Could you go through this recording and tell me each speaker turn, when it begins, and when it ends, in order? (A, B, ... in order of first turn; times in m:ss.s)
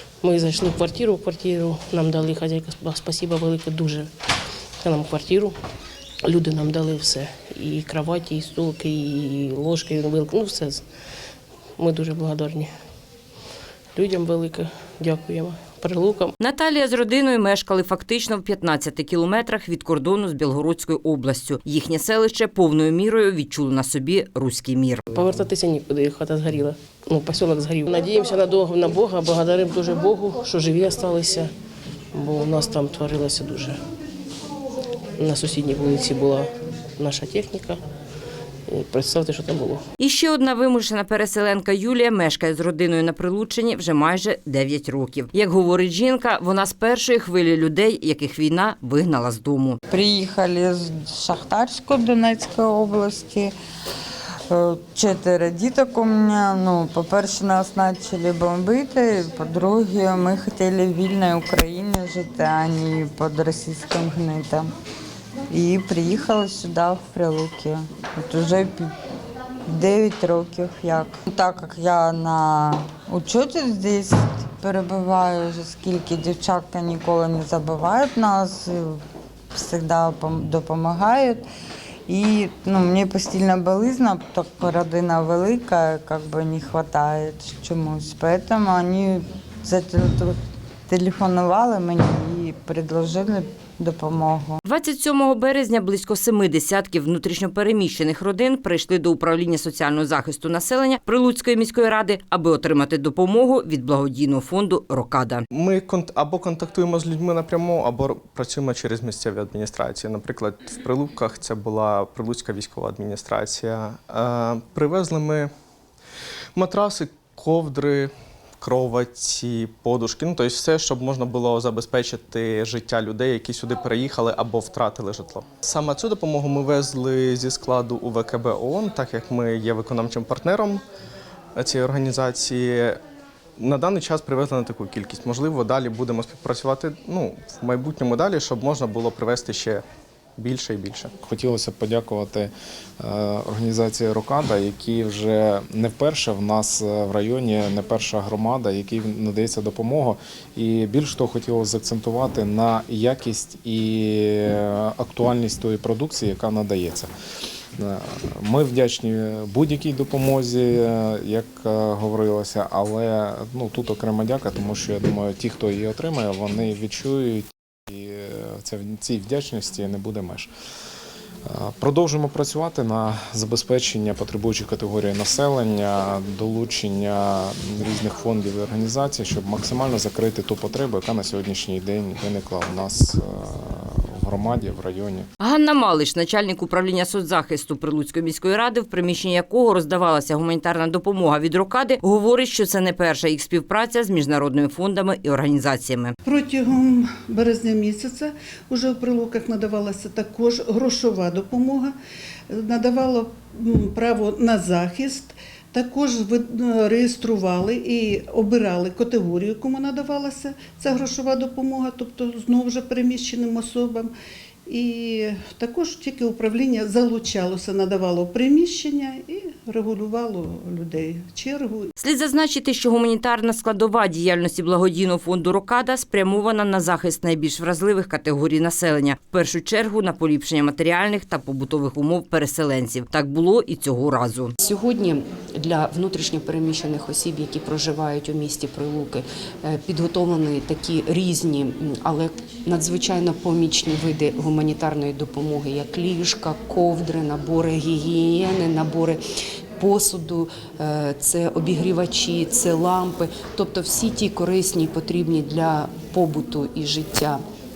0:00.2-0:04.1 A
0:04.8-0:05.5 A
0:06.2-0:10.8 A
0:11.8-0:12.7 A
0:13.9-0:16.3 A
0:16.4-0:25.0 B
0:25.1-0:31.5 A
0:32.1-0:33.8 A
0:35.2-0:37.8 A
0:38.7-0:39.8 A
0:40.0-0:49.8 B
0:49.9-0:53.5 C
0:54.5-1:04.7 C
1:05.5-1:08.9 C
1:09.7-1:19.0 C
1:19.5-1:21.4 C
1:22.1-1:30.4 C
1:30.9-1:34.6 C
1:34.6-1:45.4 B
1:45.5-1:55.5 D
1:56.6-2:10.8 D
2:11.5-2:13.0 D
2:13.6-2:19.8 D
2:20.4-2:21.1 D
2:21.2-2:37.1 E
2:37.8-2:50.5 E
2:51.4-3:05.3 E
3:05.4-3:16.1 B
3:16.2-3:21.9 F
3:22.5-3:34.1 F
3:34.7-3:41.9 F
3:42.0-3:54.5 B
3:54.6-4:09.2 G
4:09.8-4:17.4 G